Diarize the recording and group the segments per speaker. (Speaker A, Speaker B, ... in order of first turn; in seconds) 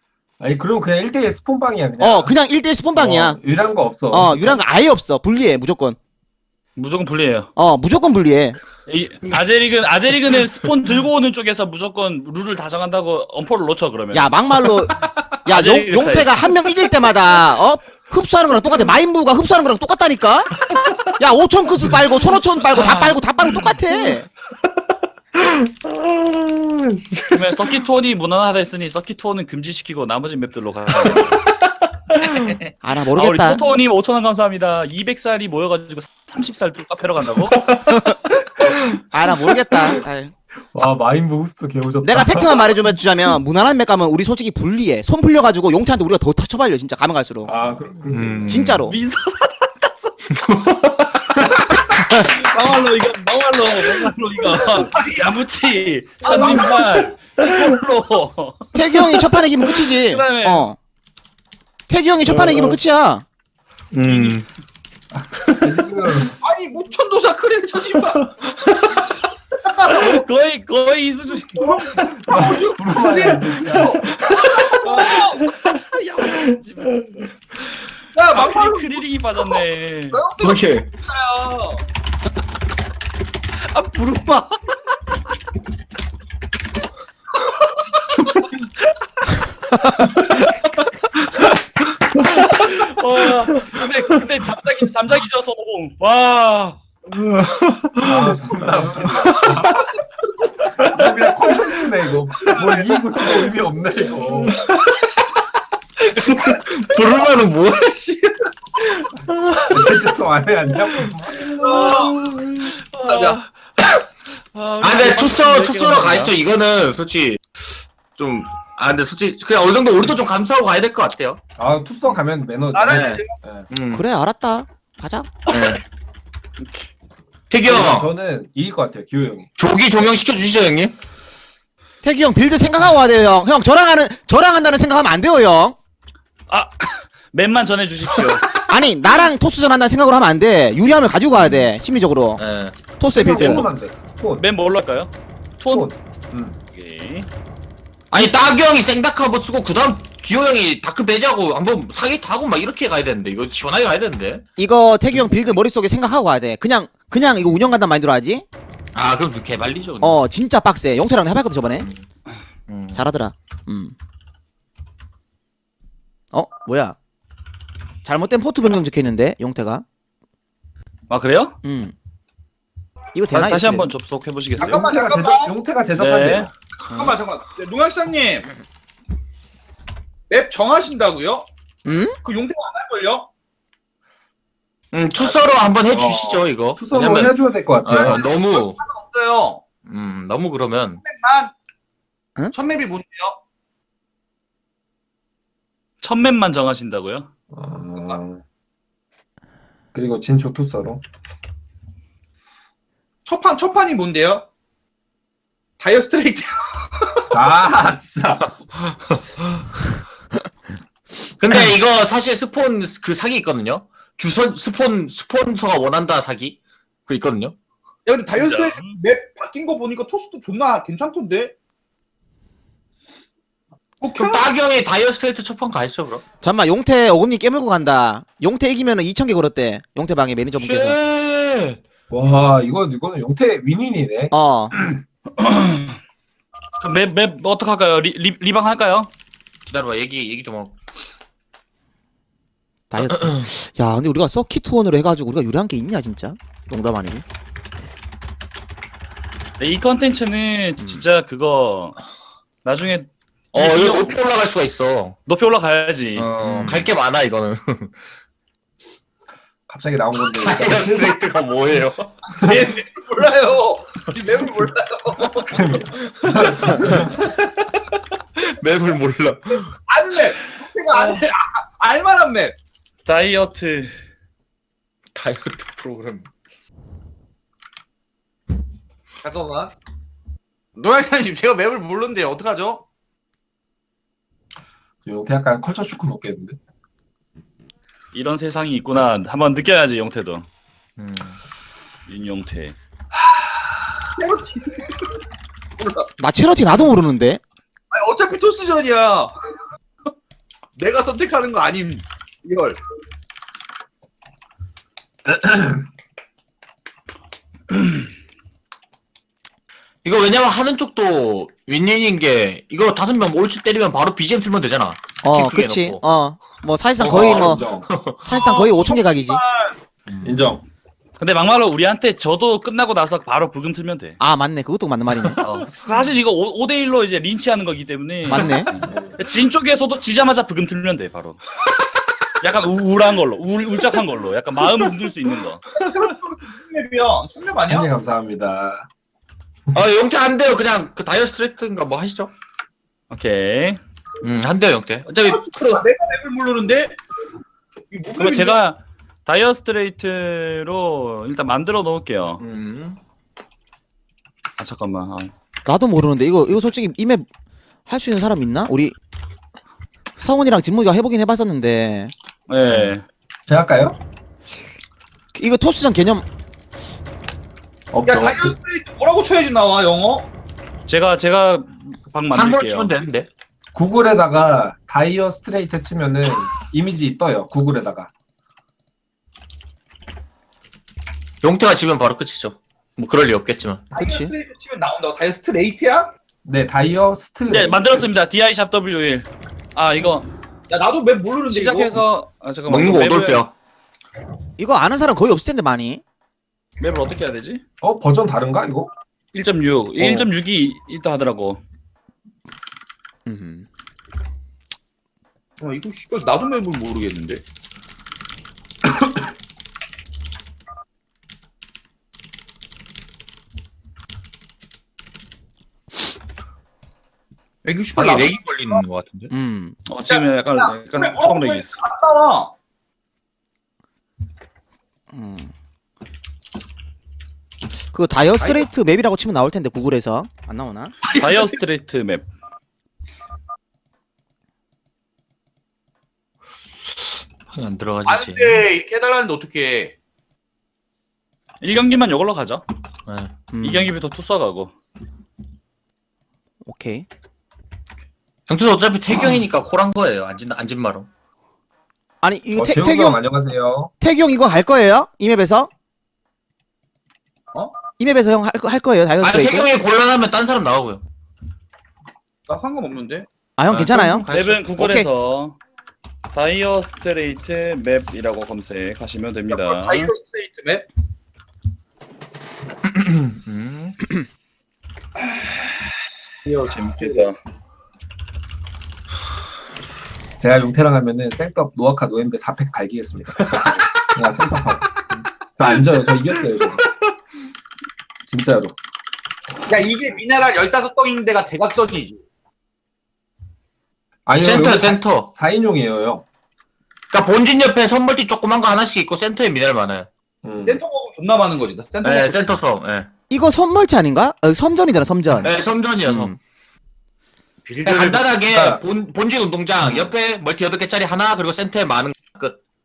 Speaker A: 0.4-2.3, 3.0-4.6, 40.7-42.8, 47.5-48.8, 62.2-62.8, 65.1-66.4, 72.1-74.1, 98.0-99.9, 100.8-104.6, 109.7-111.6, 121.6-123.7, 127.7-129.5, 143.1-144.4, 145.7-146.6, 174.6-176.5, 185.2-188.3, 197.5-198.4, 199.9-201.0, 207.3-208.5, 232.1-235.0, 259.7-261.2, 265.5-267.1, 285.1-286.6, 305.3-305.9, 317.0-317.9, 320.2-320.6, 328.9-329.2, 337.7-338.9, 363.5-364.0, 367.9-368.6, 373.8-378.1, 386.4-388.1, 397.8-398.9, 408.9-409.2, 452.6-453.9, 480.4-486.8, 488.3-488.8, 494.3-496.2, 500.4-500.8, 508.4-508.8, 509.8-510.1
Speaker B: 2.0-3.4, 4.1-6.0, 7.6-8.6, 14.1-20.5, 21.2-24.3, 32.8-33.6, 37.9-38.2, 39.1-40.3, 42.0-47.5, 48.5-49.0, 58.7-60.8, 61.9-63.2, 123.9-125.5, 132.0-135.8, 138.7-142.4, 143.0-143.7, 154.6-158.4, 160.0-161.9, 162.9-163.9, 166.3-166.9, 168.1-169.8, 171.6-171.9, 173.1-173.9, 181.9-182.2, 226.4-231.0, 234.3-234.7, 242.9-247.2, 256.4-256.9, 296.2-297.4, 315.2-317.6, 318.2-319.4, 324.2-325.4, 328.2-328.7, 355.7-357.2, 357.9-359.0, 360.2-362.1, 365.3-366.2, 383.9-384.3, 394.6-396.0, 400.0-400.3, 403.3-403.7, 419.3-419.8, 425.1-425.5, 427.9-430.9, 443.5-443.9, 446.7-447.1, 452.2-453.2, 454.0-455.7, 458.0-459.7, 463.6-465.1, 503.3-506.4
Speaker C: 6.8-7.5, 8.9-14.3, 15.5-16.5, 22.7-23.7, 27.3-31.4, 32.2-32.6, 33.1-37.6, 48.9-50.2, 52.1-60.7, 69.9-71.9, 74.8-76.9, 78.3-80.2, 83.7-85.0, 92.4-96.8, 111.6-113.5, 114.5-116.3, 136.5-138.6, 144.4-145.9, 146.7-147.3, 171.1-171.6, 173.3-174.9, 176.0-176.5, 196.0-197.3, 218.4-218.9, 235.4-236.0, 236.8-239.1, 249.6-252.0, 252.6-254.2, 255.3-256.3, 270.9-271.2, 273.1-273.9, 288.1-290.4, 292.1-292.8, 321.2-324.2, 325.4-331.4, 332.4-335.6, 343.1-343.8, 348.2-352.4, 354.6-355.3, 362.5-363.0, 370.9-372.9, 387.5-390.3, 391.5-393.4, 396.8-397.6, 399.3-401.6, 419.9-421.8, 431.1-432.2, 441.6-442.6, 443.6-444.7, 464.3-465.6, 466.3-470.1, 476.5-477.4
Speaker D: 25.4-27.4, 48.1-48.9, 50.4-51.2, 63.9-64.5, 68.2-68.9, 74.1-74.4, 80.4-80.9, 97.1-98.4, 99.1-99.8, 104.5-105.0, 106.0-110.2, 114.8-117.4, 118.2-121.4, 122.9-124.0, 125.5-125.8, 127.5-128.1, 129.6-130.9, 142.4-142.8, 148.1-154.4, 158.9-160.2, 162.7-163.0, 184.9-188.8, 189.9-191.0, 211.4-217.6, 224.1-226.2, 230.6-231.8, 239.7-240.8, 243.0-243.5, 253.5-255.2, 256.2-257.9, 260.2-262.2, 266.1-267.7, 268.4-269.7, 275.1-276.3, 291.0-291.4, 310.0-316.0, 317.1-318.2, 339.7-342.3, 344.2-345.8, 352.4-353.0, 362.7-362.9, 372.3-373.3, 381.4-383.8, 392.7-393.5, 417.9-419.3, 437.5-438.6, 443.1-443.3, 448.5-451.1, 459.2-461.0, 463.7-464.6, 472.9-474.0, 494.4-495.3, 497.1-500.1, 502.0-503.1, 505.4-506.4, 507.8-512.6
Speaker E: 56.3-56.7, 66.4-68.2, 69.6-70.2, 71.6-75.4, 78.2-79.0, 80.1-81.8, 102.4-103.4, 111.6-112.3, 113.1-113.4, 122.7-123.4, 174.6-175.5, 176.8-178.5, 180.3-181.5, 182.2-183.3, 187.9-189.6, 191.0-191.5, 192.5-193.4, 203.3-204.5, 205.8-207.3, 218.1-221.5, 224.0-224.4, 262.3-265.7, 269.5-272.6, 279.2-279.7, 280.8-282.8, 294.2-295.1, 295.8-296.1, 297.9-299.3, 300.8-302.8, 318.3-319.7, 335.8-337.9, 345.1-347.0, 347.9-348.6, 368.1-370.3, 383.9-386.1, 390.7-392.0, 405.6-407.4, 417.6-418.4, 420.1-422.5, 431.1-431.4, 438.1-439.9, 462.5-463.3, 469.5-470.9, 489.7-492.2, 500.6-502.4, 507.6-508.2